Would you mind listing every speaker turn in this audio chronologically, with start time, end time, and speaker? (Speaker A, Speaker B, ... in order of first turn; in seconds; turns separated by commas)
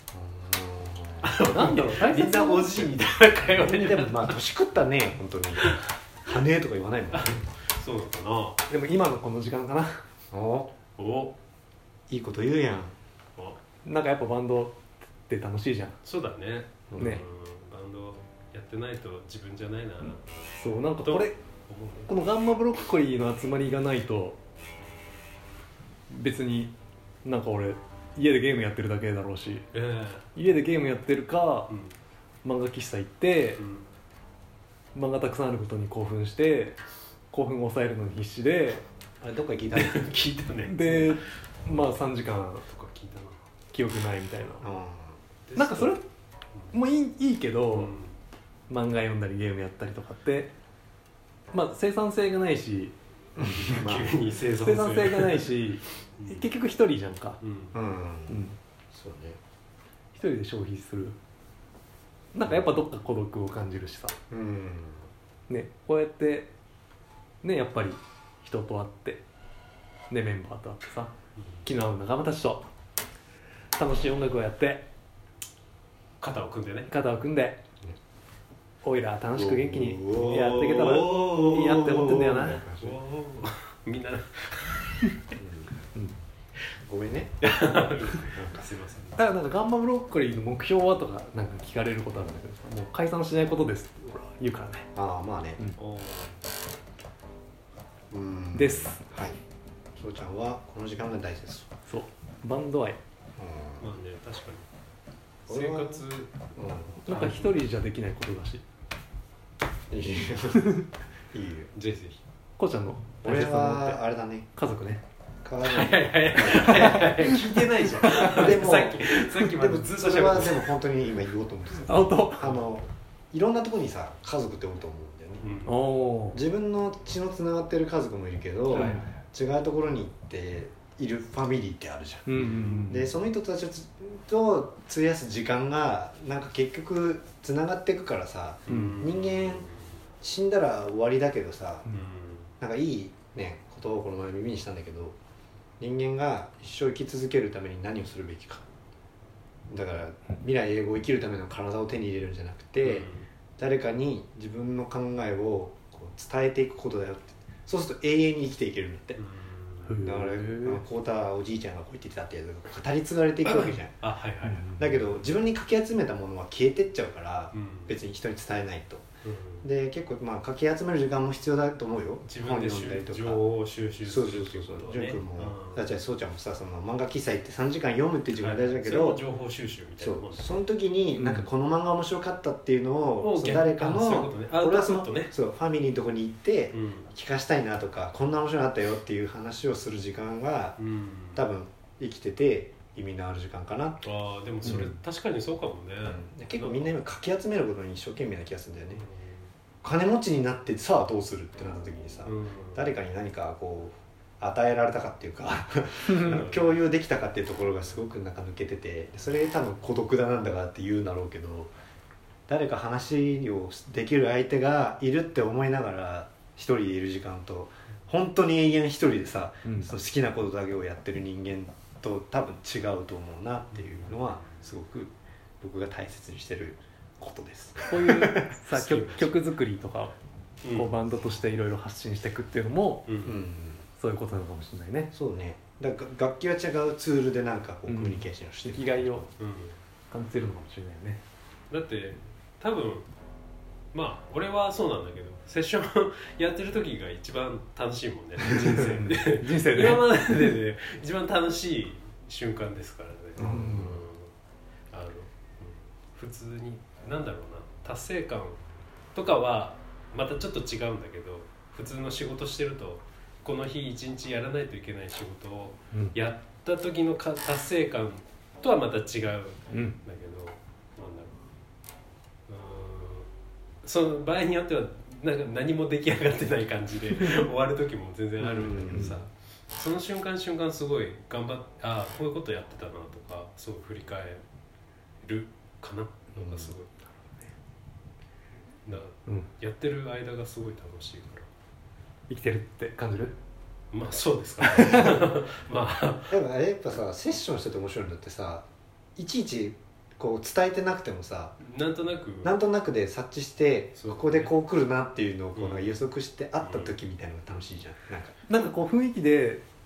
Speaker A: 0.1-1.3, Speaker B: 1.2-4.4, Speaker C: 1.4-2.9, Speaker A: 3.5-7.4, Speaker B: 7.1-8.6, Speaker C: 8.7-10.0, Speaker A: 10.3-10.7, Speaker B: 11.0-11.3, Speaker A: 12.1-12.9, Speaker C: 13.8-16.0, Speaker B: 16.0-22.1, Speaker C: 17.0-17.2, Speaker C: 20.6-21.4, Speaker C: 22.1-24.4, Speaker C: 26.1-29.6, Speaker B: 29.7-30.2, Speaker C: 30.3-31.7, Speaker B: 31.7-31.9, Speaker C: 32.4-33.6, Speaker B: 33.6-33.9, Speaker C: 34.9-38.8, Speaker A: 39.2-41.1, Speaker B: 39.7-41.2, Speaker C: 40.6-42.6, Speaker B: 42.7-43.4, Speaker C: 43.7-44.6, Speaker A: 44.6-45.1, Speaker B: 45.5-46.0, Speaker C: 45.5-46.0, Speaker C: 46.7-47.9, Speaker B: 47.7-48.1, Speaker C: 48.7-50.5, Speaker C: 51.5-52.9, Speaker A: 53.4-54.2, Speaker B: 53.5-55.5, Speaker C: 54.6-57.4, Speaker B: 56.2-56.5, Speaker B: 57.4-57.7, Speaker A: 57.7-59.4, Speaker C: 58.3-58.6, Speaker C: 60.1-61.2, Speaker C: 62.3-64.2, Speaker A: 64.3-65.1, Speaker C: 65.5-66.5, Speaker C: 67.4-69.2, Speaker C: 70.1-71.1, Speaker C: 71.6-72.7, Speaker C: 73.8-74.9, Speaker B: 76.2-76.9, Speaker C: 76.9-77.6, Speaker C: 78.8-82.7, Speaker A: 79.3-83.0, Speaker B: 80.1-81.7, Speaker B: 82.5-84.9, Speaker A: 85.4-85.7, Speaker A: 86.8-88.6, Speaker B: 87.4-89.2, Speaker C: 89.2-94.9, Speaker A: 94.9-95.6, Speaker B: 95.8-96.4, Speaker A: 98.1-99.4, Speaker C: 98.5-99.0, Speaker A: 100.0-101.7, Speaker C: 101.9-103.0, Speaker A: 103.4-103.9, Speaker B: 103.8-104.7, Speaker B: 105.5-106.3, Speaker A: 105.5-106.0, Speaker A: 106.5-107.5, Speaker C: 107.1-108.6, Speaker A: 109.9-111.7, Speaker B: 111.7-112.2, Speaker C: 112.6-114.0, Speaker A: 113.2-114.5, Speaker C: 114.5-115.0, Speaker A: 115.4-117.3, Speaker B: 115.6-120.7, Speaker A: 118.2-125.5, Speaker C: 118.2-118.9, Speaker C: 121.8-122.5, Speaker B: 125.4-125.8, Speaker C: 125.6-126.4, Speaker A: 126.3-139.7, Speaker B: 128.7-129.0, Speaker C: 128.7-129.0, Speaker C: 132.2-133.1, Speaker B: 132.3-132.9, Speaker B: 138.7-139.8, Speaker C: 138.7-139.0, Speaker A: 140.2-141.9, Speaker B: 141.9-142.5, Speaker A: 142.6-145.2, Speaker A: 145.8-148.6, Speaker A: 149.7-159.2, Speaker B: 152.8-153.2, Speaker B: 159.2-160.0, Speaker C: 159.8-160.8, Speaker A: 160.0-164.0, Speaker B: 163.4-164.7, Speaker C: 164.4-164.9, Speaker A: 164.8-169.1, Speaker B: 167.5-167.9, Speaker B: 169.2-169.7, Speaker A: 169.6-173.4, Speaker B: 172.3-175.9, Speaker A: 174.0-179.2, Speaker B: 178.3-180.6, Speaker A: 180.0-190.8, Speaker C: 181.1-181.5, Speaker B: 183.2-185.3, Speaker B: 186.7-187.1, Speaker B: 190.8-191.5, Speaker A: 191.3-194.1, Speaker B: 194.0-196.9, Speaker A: 194.6-194.9, Speaker A: 196.0-199.0, Speaker B: 198.9-199.4, Speaker A: 199.8-211.7, Speaker B: 202.2-202.9, Speaker B: 206.2-206.8, Speaker A: 212.5-228.6, Speaker C: 219.6-219.9, Speaker C: 227.9-230.1, Speaker B: 228.7-229.4, Speaker B: 230.6-230.9, Speaker C: 230.7-233.1, Speaker B: 233.1-233.4, Speaker A: 233.2-233.8, Speaker C: 234.0-235.1, Speaker A: 235.1-239.3, Speaker C: 237.9-239.3, Speaker B: 239.4-239.8, Speaker C: 240.1-241.2, Speaker B: 241.7-243.1, Speaker B: 243.9-254.3, Speaker C: 248.5-250.0, Speaker A: 253.4-254.0, Speaker C: 253.4-253.9, Speaker B: 254.9-258.6, Speaker B: 259.1-271.4, Speaker C: 269.7-270.0, Speaker B: 272.5-273.3, Speaker B: 273.8-284.4, Speaker A: 278.4-279.2, Speaker C: 278.9-279.1, Speaker B: 285.2-286.9, Speaker A: 286.4-286.7, Speaker B: 288.9-291.5, Speaker C: 292.3-293.3, Speaker B: 293.9-296.3, Speaker C: 294.6-295.2, Speaker A: 296.3-301.6, Speaker B: 301.6-302.5, Speaker A: 302.4-308.3, Speaker B: 303.9-304.5, Speaker B: 305.5-305.9, Speaker B: 306.6-306.9, Speaker C: 308.5-309.6